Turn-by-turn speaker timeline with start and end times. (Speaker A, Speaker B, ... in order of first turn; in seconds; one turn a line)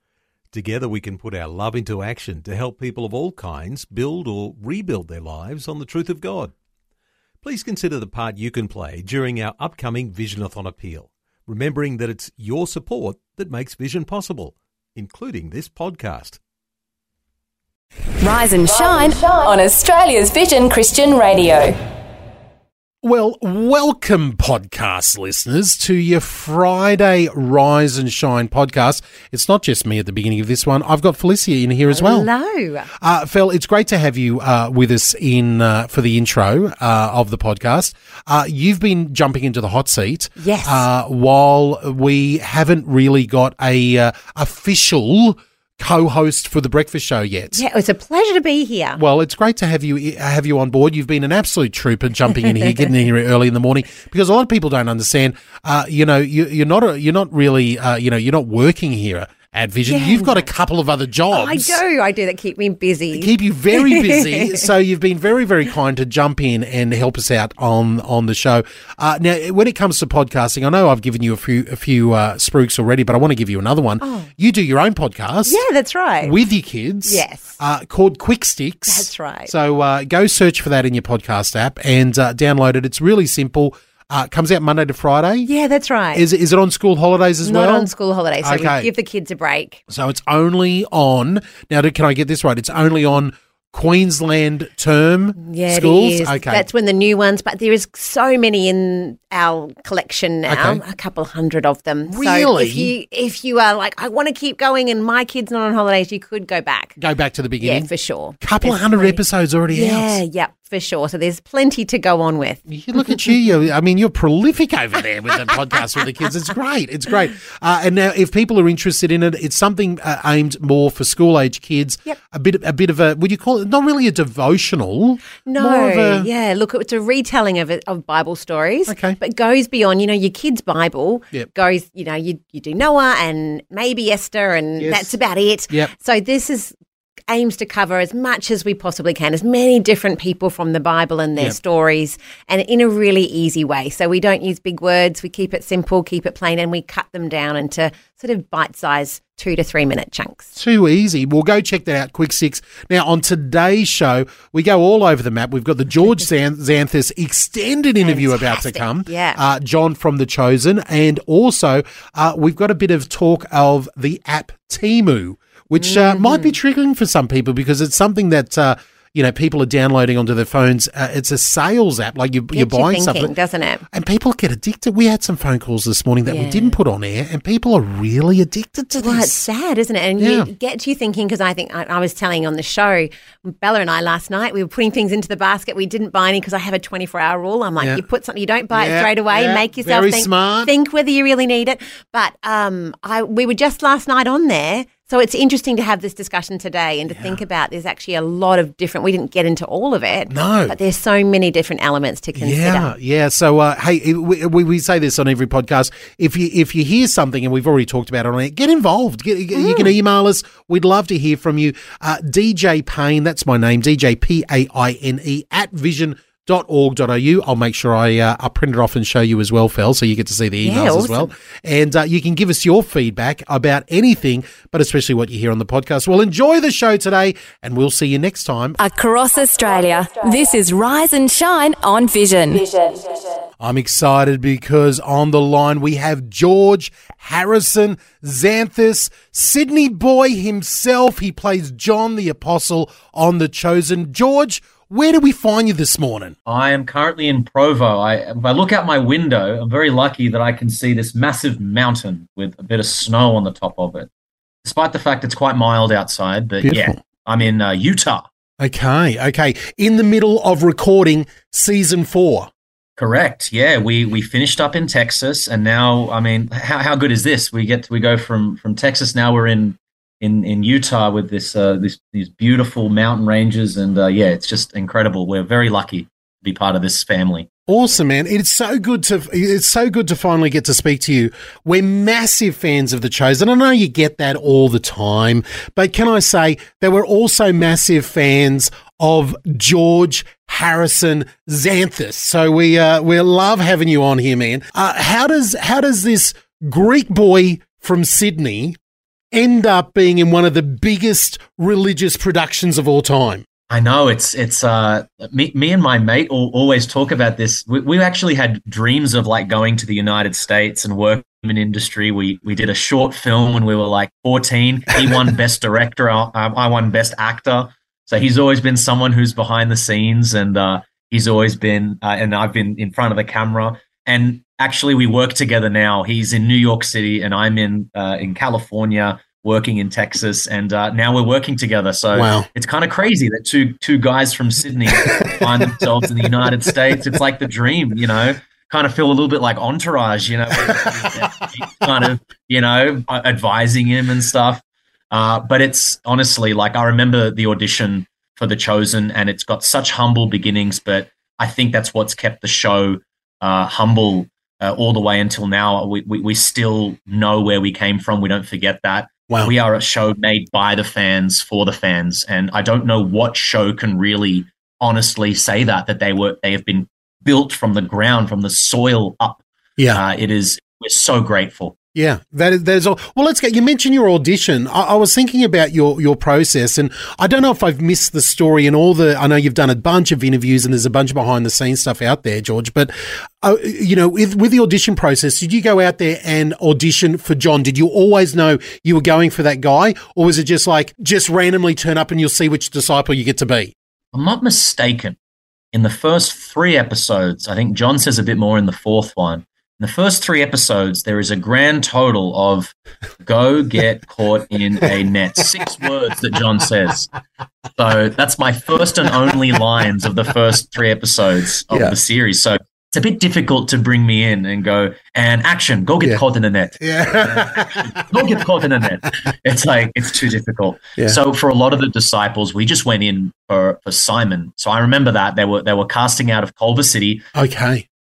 Speaker A: 0.5-6.5
Speaker A: 7.4-16.4
Speaker B: 18.2-21.7
Speaker C: 23.0-32.3
Speaker D: 31.9-32.9
Speaker C: 33.0-47.6
Speaker D: 40.4-40.9
Speaker D: 47.5-49.0
Speaker C: 49.0-61.8
Speaker D: 52.5-52.8
Speaker D: 59.9-60.5
Speaker D: 61.3-64.7
Speaker C: 63.1-75.6
Speaker D: 74.0-74.3
Speaker D: 75.4-76.3
Speaker C: 76.2-85.5
Speaker D: 77.0-77.6
Speaker D: 78.9-79.5
Speaker D: 85.4-86.2
Speaker C: 86.1-87.9
Speaker D: 87.4-89.8
Speaker C: 88.4-88.9
Speaker C: 89.9-96.7
Speaker D: 95.4-107.0
Speaker C: 100.5-100.8
Speaker C: 102.0-102.9
Speaker C: 107.0-110.2
Speaker D: 107.6-109.2
Speaker D: 109.7-113.2
Speaker C: 112.7-126.3
Speaker D: 125.4-136.7
Speaker C: 128.9-129.2
Speaker C: 134.8-135.1
Speaker D: 137.3-150.5
Speaker C: 150.5-173.3
Speaker D: 158.0-159.4
Speaker D: 165.8-166.5
Speaker D: 172.5-173.8
Speaker C: 173.9-179.3
Speaker D: 176.2-176.8
Speaker D: 178.9-202.9
Speaker C: 180.2-180.5
Speaker C: 188.7-190.7
Speaker C: 197.1-197.4
Speaker C: 200.3-200.8
Speaker C: 202.3-228.8
Speaker D: 209.5-209.9
Speaker D: 220.6-221.3
Speaker B: 228.8-233.3
Speaker C: 233.6-246.3
Speaker E: 246.4-254.1
Speaker E: 254.6-258.2
Speaker C: 256.6-257.0
Speaker C: 258.6-262.5
Speaker E: 263.0-277.5
Speaker C: 277.7-298.8
Speaker C: 299.3-303.4
Speaker E: 303.7-369.4
Speaker C: 332.1-332.5
Speaker C: 335.1-335.8
Speaker C: 340.6-340.9
Speaker E: 369.9-371.7
Speaker C: 371.9-393.7
Speaker E: 394.1-395.1
Speaker E: 395.7-407.1
Speaker E: 407.8-427.2
Speaker C: 411.7-411.9
Speaker C: 416.8-418.1
Speaker C: 427.3-427.9